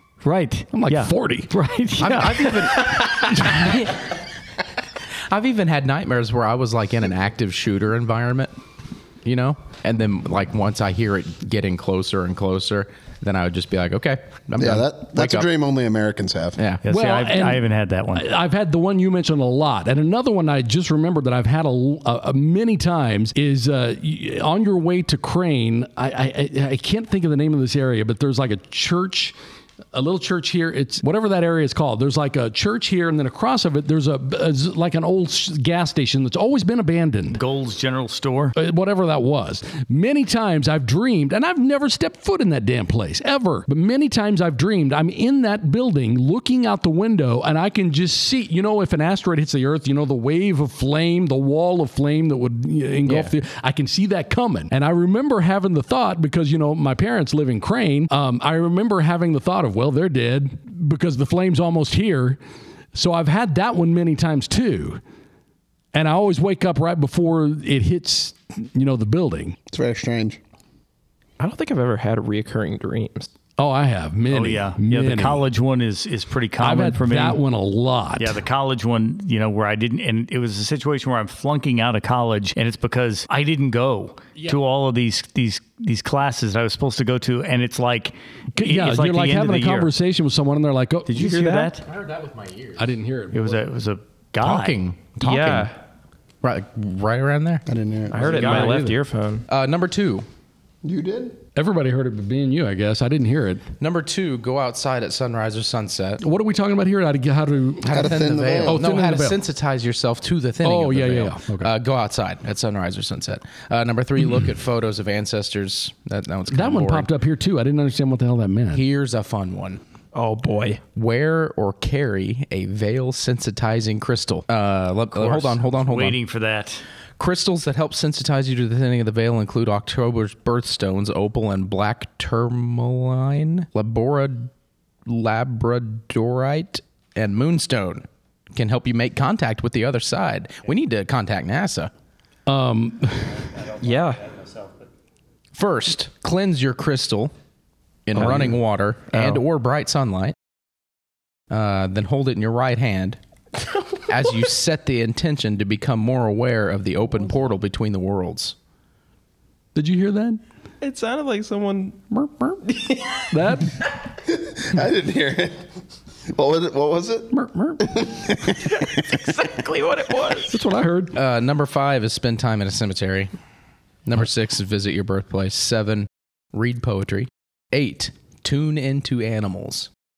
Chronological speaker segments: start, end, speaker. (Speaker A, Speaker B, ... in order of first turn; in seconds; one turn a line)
Speaker A: 0.2-3.5
Speaker B: 0.7-1.5
Speaker C: 2.0-4.0
Speaker B: 3.3-3.7
Speaker C: 5.3-8.5
Speaker C: 9.2-15.5
Speaker D: 14.6-16.6
Speaker C: 16.6-16.8
Speaker A: 16.8-18.3
Speaker B: 16.9-29.4
Speaker B: 29.9-37.4
Speaker A: 37.3-38.5
Speaker B: 38.5-62.4
Speaker C: 53.1-53.3
Speaker B: 62.9-65.0
Speaker B: 65.9-69.6
Speaker D: 69.7-70.4
Speaker E: 71.4-73.3
Speaker B: 73.6-75.5
Speaker A: 74.3-77.4
Speaker B: 76.6-78.4
Speaker A: 78.2-89.9
Speaker B: 88.5-91.3
Speaker A: 91.1-91.8
Speaker E: 91.2-91.7
Speaker C: 91.8-92.9
Speaker B: 92.8-93.6
Speaker A: 93.3-94.8
Speaker C: 94.4-95.7
Speaker E: 95.2-95.8
Speaker C: 96.4-97.7
Speaker D: 97.7-98.5
Speaker E: 98.1-99.5
Speaker B: 98.2-99.0
Speaker A: 98.4-98.7
Speaker C: 99.5-100.2
Speaker D: 100.8-101.4
Speaker B: 101.6-103.7
Speaker C: 103.8-106.2
Speaker B: 106.2-109.4
Speaker D: 107.9-108.8
Speaker C: 107.9-117.1
Speaker B: 110.6-111.7
Speaker B: 116.5-118.8
Speaker C: 118.7-119.8
Speaker E: 120.1-120.8
Speaker C: 121.0-126.2
Speaker A: 125.1-126.8
Speaker C: 127.2-134.5
Speaker C: 135.1-141.9
Speaker B: 142.5-143.6
Speaker E: 143.8-144.4
Speaker C: 145.6-147.3
Speaker C: 148.1-150.3
Speaker E: 148.2-148.6
Speaker E: 149.1-149.4
Speaker C: 151.5-153.2
Speaker E: 153.9-154.3
Speaker C: 154.1-158.6
Speaker B: 159.8-160.4
Speaker E: 160.8-163.3
Speaker B: 163.3-163.8
Speaker D: 164.3-165.6
Speaker D: 166.3-168.9
Speaker B: 167.3-167.9
Speaker E: 168.7-170.6
Speaker B: 170.5-171.2
Speaker C: 171.1-173.3
Speaker C: 174.1-179.9